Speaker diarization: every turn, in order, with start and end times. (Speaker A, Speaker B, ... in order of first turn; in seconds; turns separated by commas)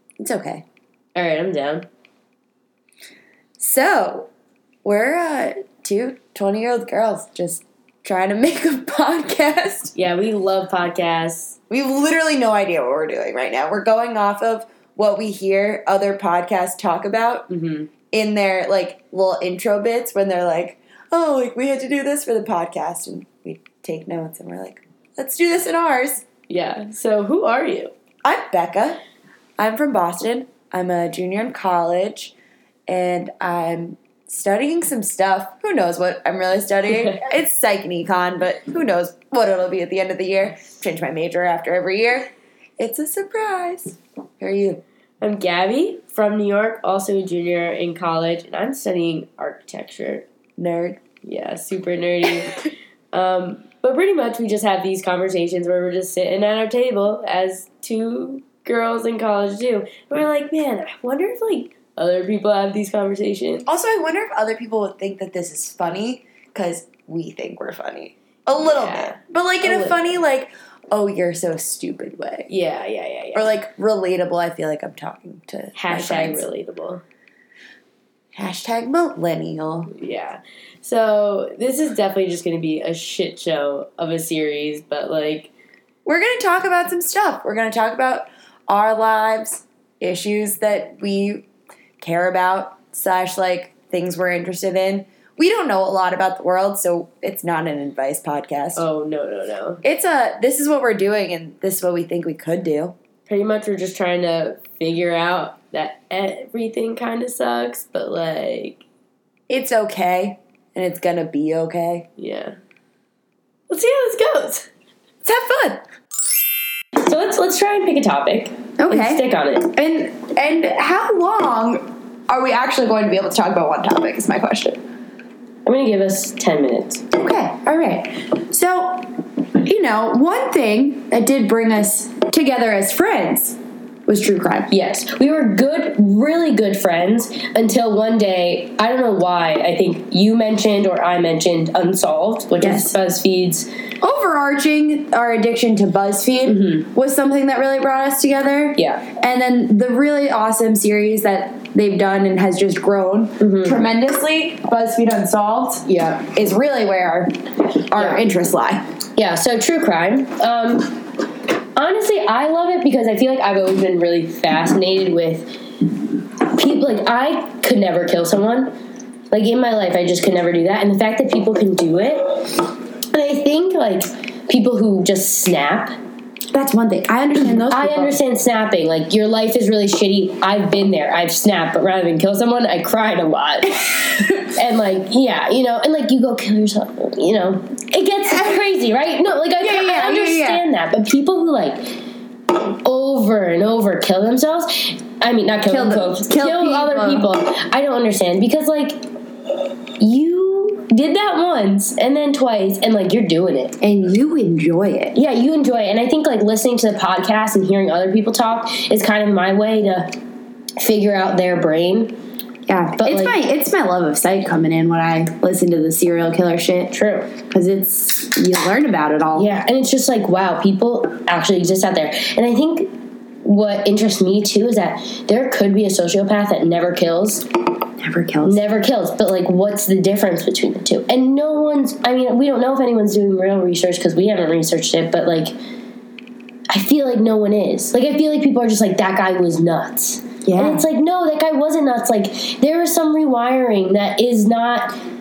Speaker A: 0.2-0.6, Speaker B: 1.1-1.9, Speaker A: 3.6-4.3, Speaker A: 4.8-9.9, Speaker B: 9.9-11.6, Speaker A: 11.7-17.5, Speaker B: 17.5-17.9, Speaker A: 18.1-26.2, Speaker B: 26.5-27.9, Speaker A: 28.2-29.0, Speaker A: 29.6-32.3, Speaker A: 32.9-44.8, Speaker B: 45.2-50.2, Speaker A: 50.6-51.0, Speaker B: 51.2-63.7, Speaker A: 63.6-72.5, Speaker B: 68.6-70.0, Speaker B: 72.5-73.5, Speaker A: 73.3-76.4, Speaker B: 75.7-77.0, Speaker A: 78.3-79.9, Speaker B: 79.9-85.5, Speaker A: 86.0-91.4, Speaker A: 92.0-98.8, Speaker B: 98.8-99.8, Speaker A: 99.8-102.9, Speaker B: 103.3-108.8, Speaker A: 109.5-112.1, Speaker B: 112.2-112.5, Speaker B: 113.7-114.7, Speaker A: 115.2-115.8, Speaker B: 117.0-119.7, Speaker A: 118.8-124.8, Speaker B: 125.6-127.0, Speaker A: 127.1-129.1, Speaker A: 129.6-134.7, Speaker B: 134.7-143.7, Speaker A: 142.6-143.0, Speaker A: 144.0-157.3, Speaker B: 146.5-146.9, Speaker B: 148.8-149.0, Speaker B: 153.4-153.8, Speaker B: 155.9-156.2, Speaker A: 157.9-158.8, Speaker B: 157.9-158.2, Speaker B: 159.2-161.0, Speaker B: 161.8-165.9, Speaker B: 166.4-168.7, Speaker B: 169.3-175.9, Speaker A: 176.5-178.2, Speaker B: 177.5-192.0, Speaker A: 183.9-184.5, Speaker A: 189.6-190.6, Speaker B: 192.5-199.0, Speaker A: 195.7-197.3, Speaker B: 200.0-203.8, Speaker A: 203.8-205.2, Speaker B: 205.1-210.1, Speaker B: 210.8-212.1, Speaker A: 212.7-216.9, Speaker B: 213.0-213.3, Speaker B: 216.9-217.3, Speaker A: 217.5-219.5, Speaker B: 219.3-222.9, Speaker B: 223.4-227.4, Speaker A: 228.0-228.6, Speaker B: 228.4-235.5, Speaker B: 236.7-244.9, Speaker A: 240.4-240.8